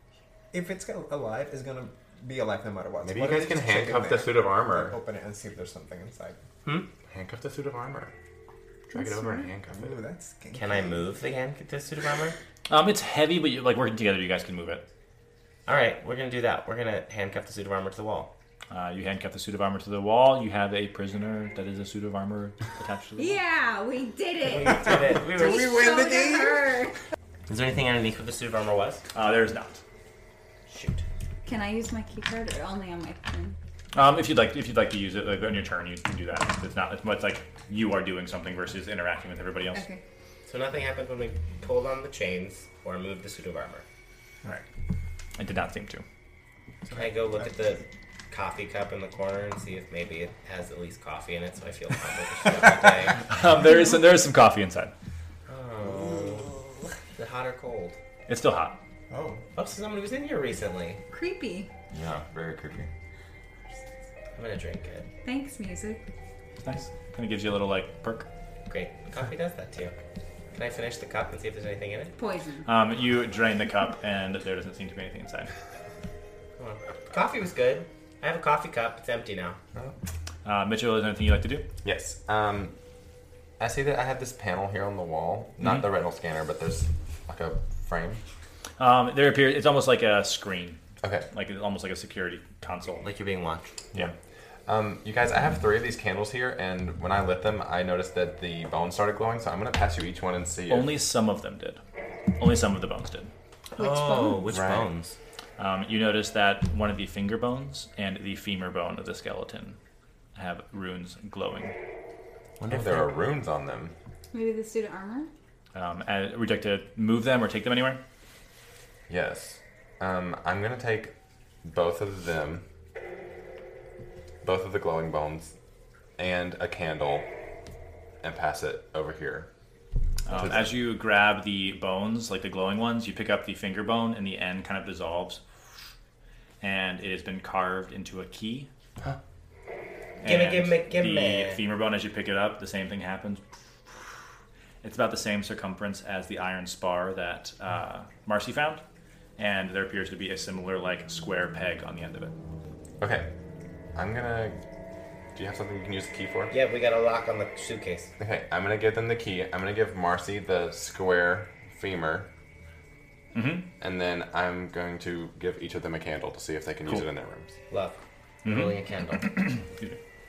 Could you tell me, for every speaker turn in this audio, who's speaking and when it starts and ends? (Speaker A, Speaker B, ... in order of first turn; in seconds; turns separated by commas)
Speaker A: 0.5-6.4, Speaker B: 3.0-5.0, Speaker C: 6.6-6.9, Speaker B: 7.0-8.1, Speaker B: 8.9-10.0, Speaker A: 9.7-11.0, Speaker C: 10.5-12.4, Speaker D: 12.7-14.8, Speaker C: 15.7-18.3, Speaker D: 18.7-23.4, Speaker E: 23.2-26.9, Speaker C: 24.4-25.9, Speaker A: 24.9-26.7, Speaker C: 27.5-29.0, Speaker D: 29.1-29.8, Speaker C: 30.7-31.0, Speaker E: 31.4-33.6, Speaker D: 34.0-39.8, Speaker E: 39.7-40.0, Speaker C: 40.5-43.8, Speaker D: 45.4-46.0, Speaker A: 46.8-47.5, Speaker C: 46.9-53.2, Speaker D: 53.3-54.9, Speaker C: 55.5-56.6, Speaker C: 57.1-58.0, Speaker D: 58.3-58.8, Speaker A: 59.1-59.4, Speaker C: 59.5-61.0, Speaker E: 61.1-61.7, Speaker B: 61.9-62.9, Speaker C: 62.0-62.8, Speaker C: 64.3-65.1, Speaker E: 65.2-66.0, Speaker D: 66.6-68.3, Speaker C: 68.7-70.0, Speaker C: 70.5-72.1, Speaker E: 72.2-72.7, Speaker D: 72.7-75.5, Speaker C: 76.6-79.6, Speaker D: 80.5-81.7, Speaker B: 81.8-82.7, Speaker B: 83.6-88.2, Speaker D: 88.8-90.8, Speaker D: 91.3-93.1, Speaker C: 93.0-93.7, Speaker B: 94.7-101.0, Speaker D: 100.7-101.8, Speaker D: 102.4-103.3, Speaker E: 103.8-104.5, Speaker C: 103.8-105.2, Speaker B: 104.5-104.9, Speaker D: 105.6-109.8, Speaker D: 110.4-111.8, Speaker C: 112.6-113.1, Speaker B: 112.7-113.9, Speaker E: 114.3-115.3, Speaker D: 115.7-118.0, Speaker B: 119.1-122.6, Speaker B: 124.4-125.5, Speaker B: 126.2-127.3, Speaker B: 128.2-129.5, Speaker D: 130.3-135.4, Speaker B: 130.3-130.7, Speaker D: 136.6-138.7, Speaker D: 140.2-143.4, Speaker C: 140.2-141.6, Speaker D: 144.8-148.8, Speaker D: 149.4-152.3, Speaker B: 153.0-153.3, Speaker B: 153.9-154.6, Speaker B: 155.3-156.5, Speaker C: 156.5-158.1, Speaker B: 158.2-162.3, Speaker D: 163.3-163.7, Speaker B: 163.8-167.5, Speaker C: 167.7-169.4, Speaker D: 168.4-170.0